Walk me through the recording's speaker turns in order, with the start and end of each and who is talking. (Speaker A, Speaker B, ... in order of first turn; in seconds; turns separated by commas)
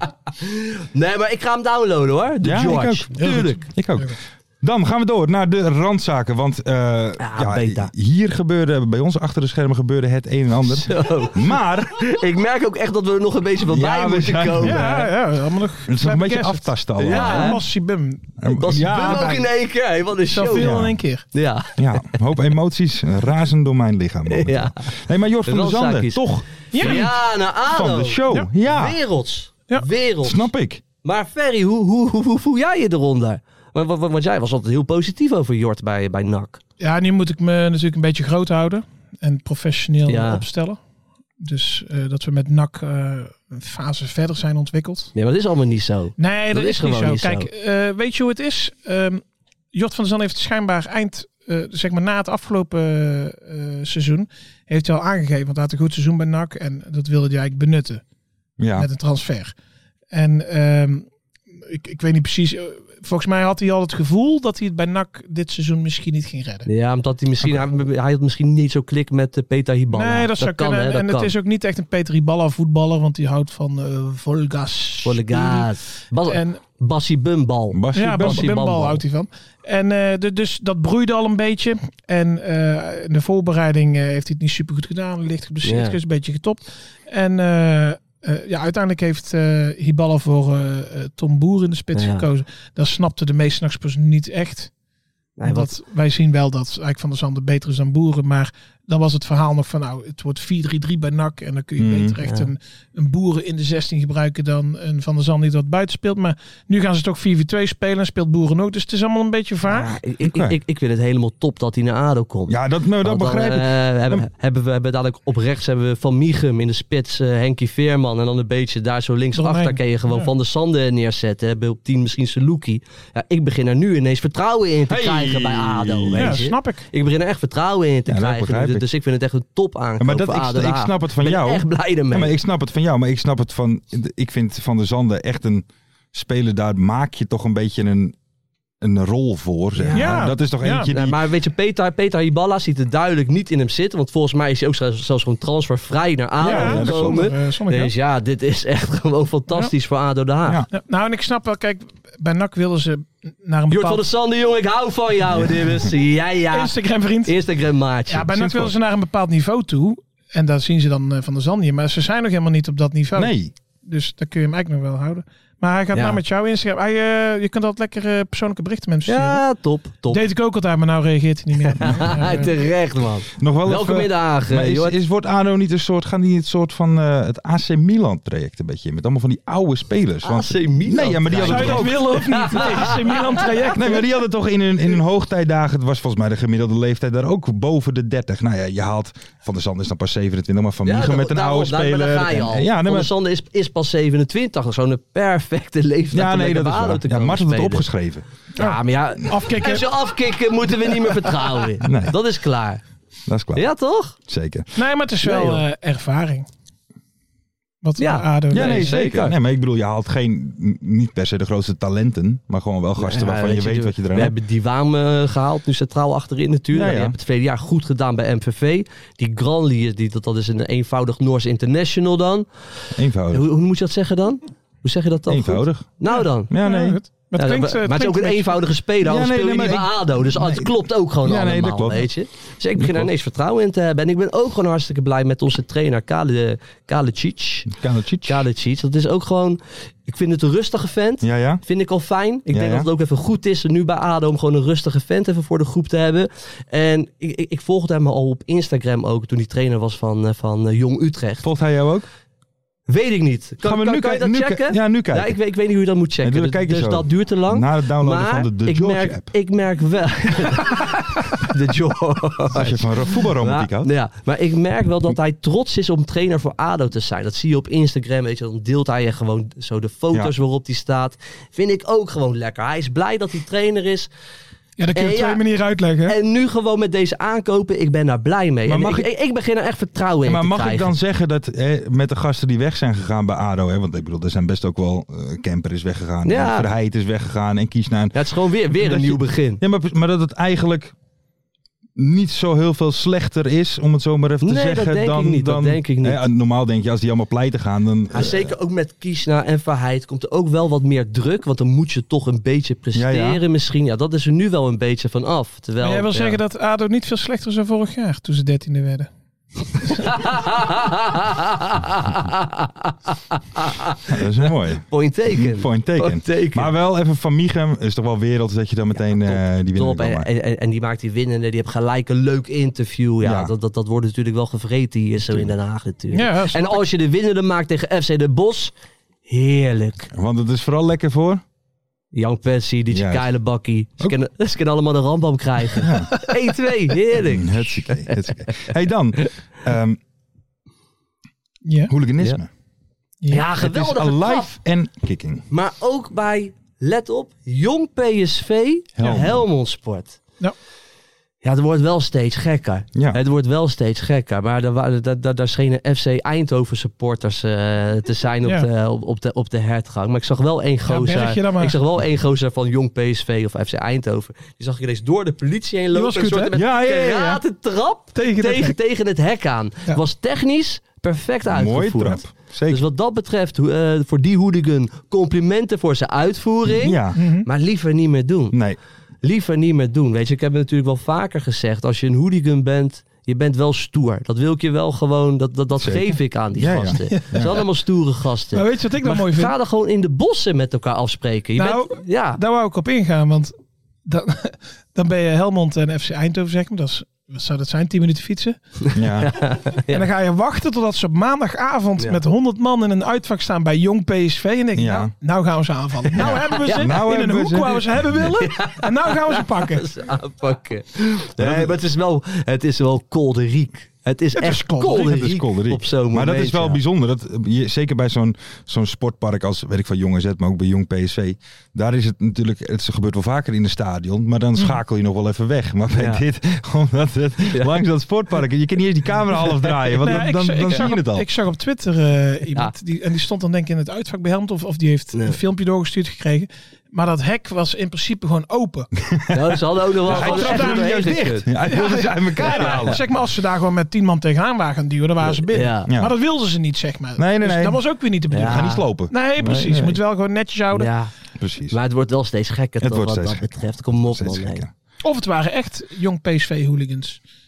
Speaker A: 0.4-3.6, Speaker B: 2.4-12.0, Speaker A: 7.2-7.9, Speaker A: 10.8-14.9, Speaker B: 13.6-15.1, Speaker C: 14.6-19.5, Speaker B: 15.9-17.6, Speaker A: 17.0-17.6, Speaker B: 18.4-19.4, Speaker A: 18.5-20.7, Speaker C: 20.3-21.2, Speaker B: 20.5-20.9, Speaker A: 21.3-22.2, Speaker B: 21.8-29.0, Speaker A: 24.3-24.8, Speaker A: 25.4-30.5, Speaker C: 26.7-27.1, Speaker B: 30.2-30.8, Speaker A: 31.0-36.6, Speaker C: 36.8-40.8, Speaker A: 40.1-40.4, Speaker C: 41.4-45.1, Speaker A: 45.1-47.5, Speaker C: 46.2-58.0, Speaker B: 58.6-58.9, Speaker C: 58.8-59.5, Speaker C: 60.1-61.0, Speaker C: 61.6-66.7, Speaker A: 66.7-71.3, Speaker C: 69.9-75.7, Speaker A: 75.0-79.0, Speaker C: 76.3-76.6, Speaker B: 77.7-78.5, Speaker C: 77.9-94.7, Speaker A: 85.6-86.0, Speaker A: 91.9-92.2, Speaker A: 95.4-95.7, Speaker C: 95.5-110.0, Speaker B: 101.8-102.2, Speaker A: 102.2-102.5, Speaker A: 109.7-132.3, Speaker B: 110.2-110.6, Speaker B: 112.5-114.2, Speaker C: 119.3-120.3, Speaker B: 124.9-126.4, Speaker C: 126.2-126.8, Speaker B: 128.1-128.8, Speaker B: 130.0-138.2, Speaker B: 138.8-141.2, Speaker A: 139.8-140.3, Speaker C: 139.9-140.9, Speaker A: 140.9-150.6, Speaker B: 146.4-147.2, Speaker C: 146.4-147.9, Speaker C: 150.7-154.0, Speaker A: 153.7-156.7, Speaker C: 156.5-157.3, Speaker A: 157.2-158.3, Speaker C: 158.1-169.4, Speaker B: 158.2-158.7, Speaker B: 163.1-163.5, Speaker A: 165.9-166.2, Speaker A: 169.1-170.2, Speaker C: 170.1-172.5, Speaker A: 171.7-174.9, Speaker B: 173.4-182.9, Speaker A: 180.2-183.7, Speaker C: 181.4-184.1, Speaker B: 183.7-193.1, Speaker A: 190.8-197.9, Speaker B: 196.1-198.2, Speaker C: 198.6-199.9, Speaker A: 198.6-202.8, Speaker B: 201.8-202.2, Speaker B: 203.3-203.7, Speaker A: 203.5-204.2, Speaker B: 204.3-204.7, Speaker C: 204.8-206.5, Speaker A: 205.2-205.6, Speaker C: 207.8-209.0, Speaker A: 208.0-209.3, Speaker B: 208.5-214.3, Speaker A: 213.0-222.5, Speaker B: 216.7-217.2, Speaker B: 222.9-223.4, Speaker A: 223.3-226.5, Speaker B: 225.3-225.9, Speaker C: 226.1-228.6, Speaker B: 226.5-227.0, Speaker A: 227.3-237.7, Speaker B: 229.0-232.1, Speaker B: 232.8-233.1, Speaker B: 237.7-238.4, Speaker A: 238.2-251.5, Speaker B: 241.2-241.6, Speaker B: 242.5-242.9, Speaker B: 251.4-252.1, Speaker A: 252.9-274.1, Speaker B: 253.6-255.3, Speaker B: 256.2-259.3, Speaker B: 262.5-263.9, Speaker C: 274.8-276.1, Speaker A: 274.9-275.4, Speaker A: 276.1-280.9, Speaker B: 278.7-279.1, Speaker B: 280.2-288.2, Speaker A: 286.2-286.7, Speaker A: 288.1-289.6, Speaker B: 288.7-290.9, Speaker B: 291.9-298.5, Speaker A: 294.4-296.2, Speaker A: 298.1-306.4, Speaker B: 302.9-303.4, Speaker C: 305.8-309.1, Speaker C: 309.8-310.3, Speaker A: 310.0-316.7, Speaker B: 314.1-320.3, Speaker A: 318.9-328.7, Speaker B: 323.2-323.5, Speaker C: 326.1-326.8, Speaker A: 329.2-330.1, Speaker B: 330.1-331.4, Speaker A: 332.1-338.3, Speaker B: 332.9-333.2, Speaker B: 335.8-336.1, Speaker B: 337.2-340.0, Speaker C: 341.6-341.9, Speaker B: 341.9-342.5, Speaker C: 343.2-343.5, Speaker A: 343.3-344.5, Speaker B: 343.6-345.4, Speaker A: 345.5-350.2, Speaker B: 349.0-349.4, Speaker A: 351.4-378.6, Speaker C: 360.9-361.8, Speaker C: 365.9-366.6, Speaker B: 366.5-367.4, Speaker C: 368.1-368.8, Speaker B: 371.5-372.8, Speaker B: 376.6-377.2, Speaker C: 377.1-377.4, Speaker B: 378.5-378.8, Speaker A: 379.2-392.4, Speaker B: 385.8-387.6, Speaker C: 387.1-387.6, Speaker C: 388.5-389.5, Speaker C: 391.6-393.5, Speaker C: 394.1-398.6, Speaker A: 398.8-400.0, Speaker B: 398.9-399.3, Speaker C: 399.9-409.9, Speaker B: 404.8-405.1, Speaker A: 406.1-407.0, Speaker B: 406.1-408.2, Speaker A: 408.4-416.8, Speaker B: 411.4-411.8, Speaker C: 414.3-415.2, Speaker B: 414.8-431.2, Speaker A: 425.9-426.2, Speaker A: 427.5-427.8, Speaker C: 430.0-438.9, Speaker A: 435.1-435.4, Speaker B: 439.1-439.4, Speaker A: 439.3-441.5, Speaker B: 440.1-443.0, Speaker C: 440.1-450.9, Speaker A: 442.5-443.0, Speaker A: 445.2-445.9, Speaker B: 445.9-446.1, Speaker B: 447.2-447.8, Speaker A: 448.3-448.8, Speaker B: 448.4-450.0, Speaker A: 450.7-451.1, Speaker B: 451.4-451.8, Speaker A: 451.7-454.6, Speaker B: 452.8-454.7, Speaker C: 455.0-457.2